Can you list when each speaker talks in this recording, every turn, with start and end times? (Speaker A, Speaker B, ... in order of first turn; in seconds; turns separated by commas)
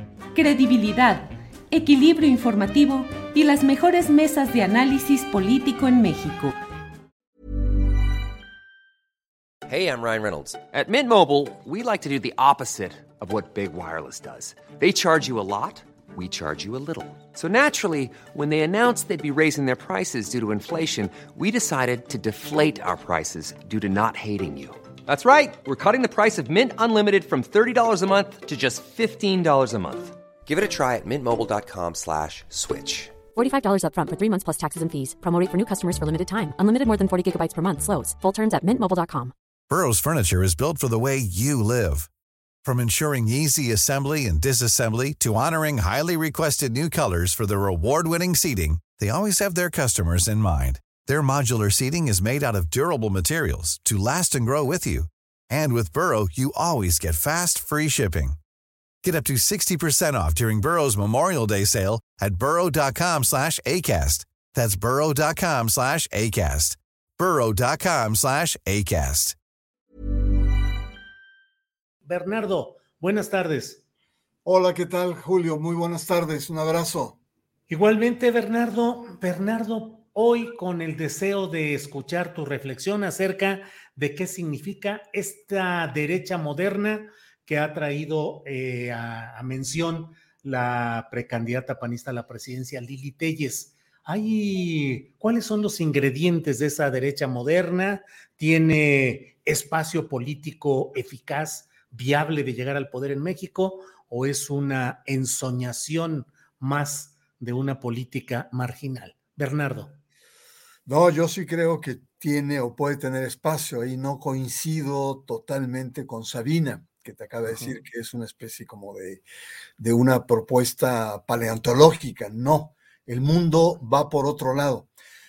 Speaker A: 0.5-1.0, Speaker A: 1.8-6.3, Speaker B: 9.7-33.2, Speaker C: 33.4-39.3, Speaker D: 39.7-42.1, Speaker D: 42.6-58.4, Speaker D: 59.0-69.3, Speaker E: 72.0-73.8, Speaker F: 74.4-77.2, Speaker E: 77.7-110.0, Speaker F: 110.8-119.2, Speaker E: 117.5-117.7, Speaker F: 119.8-124.9